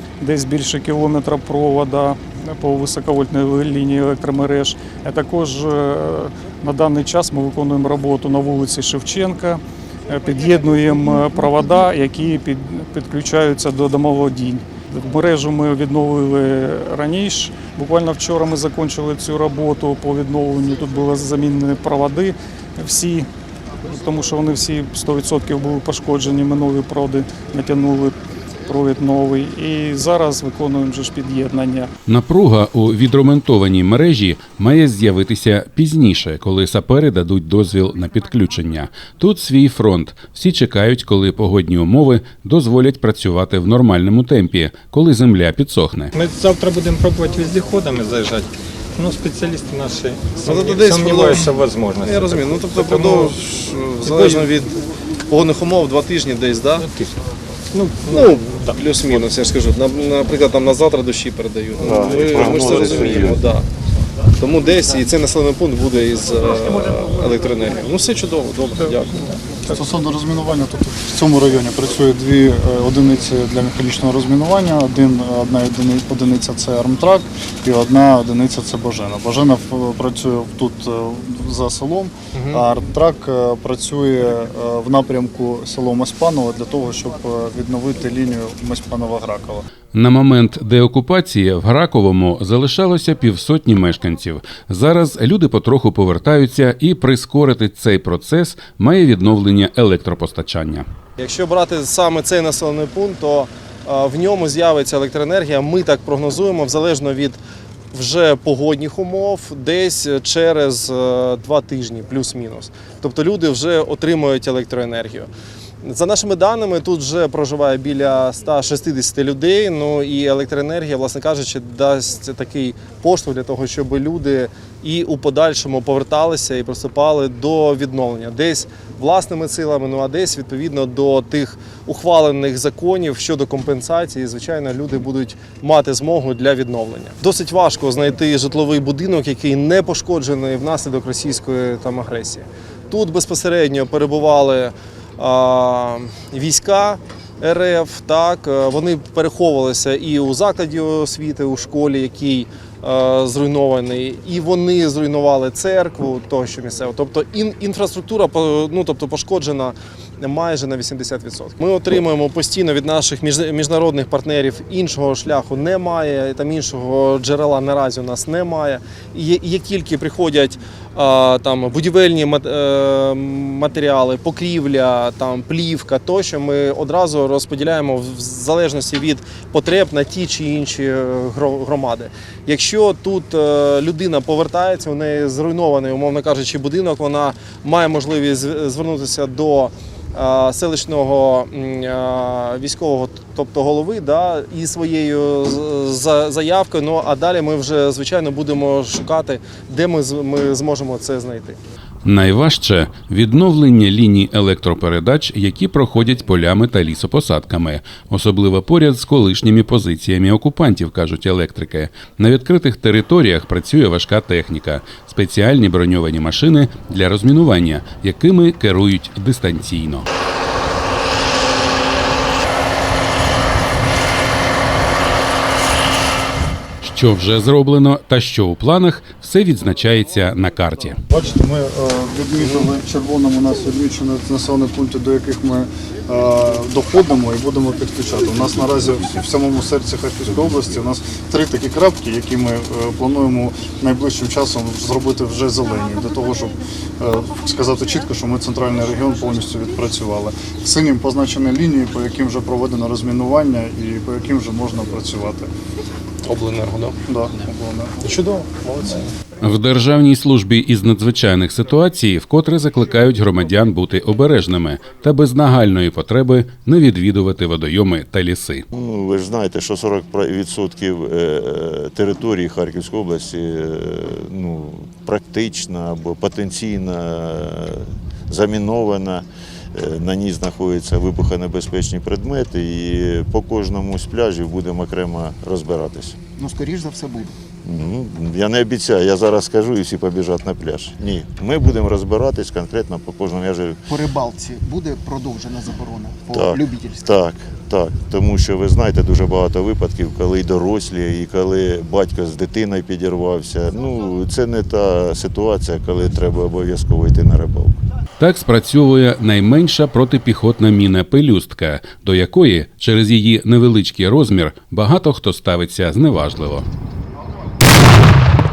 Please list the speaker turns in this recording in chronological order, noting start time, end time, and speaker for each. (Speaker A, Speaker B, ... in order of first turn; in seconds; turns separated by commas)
Speaker A: 0.2-23.3, Speaker A: 23.8-31.9, Speaker B: 32.1-46.1, Speaker C: 46.1-53.3, Speaker D: 50.4-54.7, Speaker C: 54.0-54.5, Speaker D: 55.3-56.9, Speaker C: 56.8-57.1, Speaker C: 57.7-58.8, Speaker D: 58.1-63.7, Speaker E: 61.8-63.4, Speaker D: 64.4-69.6, Speaker F: 69.7-89.7, Speaker D: 82.3-82.6, Speaker B: 89.9-100.8, Speaker D: 101.2-107.4, Speaker D: 107.9-115.3, Speaker D: 115.8-201.6, Speaker B: 202.0-220.1, Speaker B: 226.8-231.0, Speaker F: 231.1-255.5, Speaker D: 232.4-232.7, Speaker D: 256.2-256.9, Speaker F: 257.1-258.1, Speaker D: 258.0-259.1, Speaker B: 259.4-268.6, Speaker E: 268.7-286.2, Speaker G: 286.4-287.3, Speaker E: 287.6-293.8, Speaker G: 293.9-296.9, Speaker E: 296.3-307.8, Speaker B: 308.2-316.6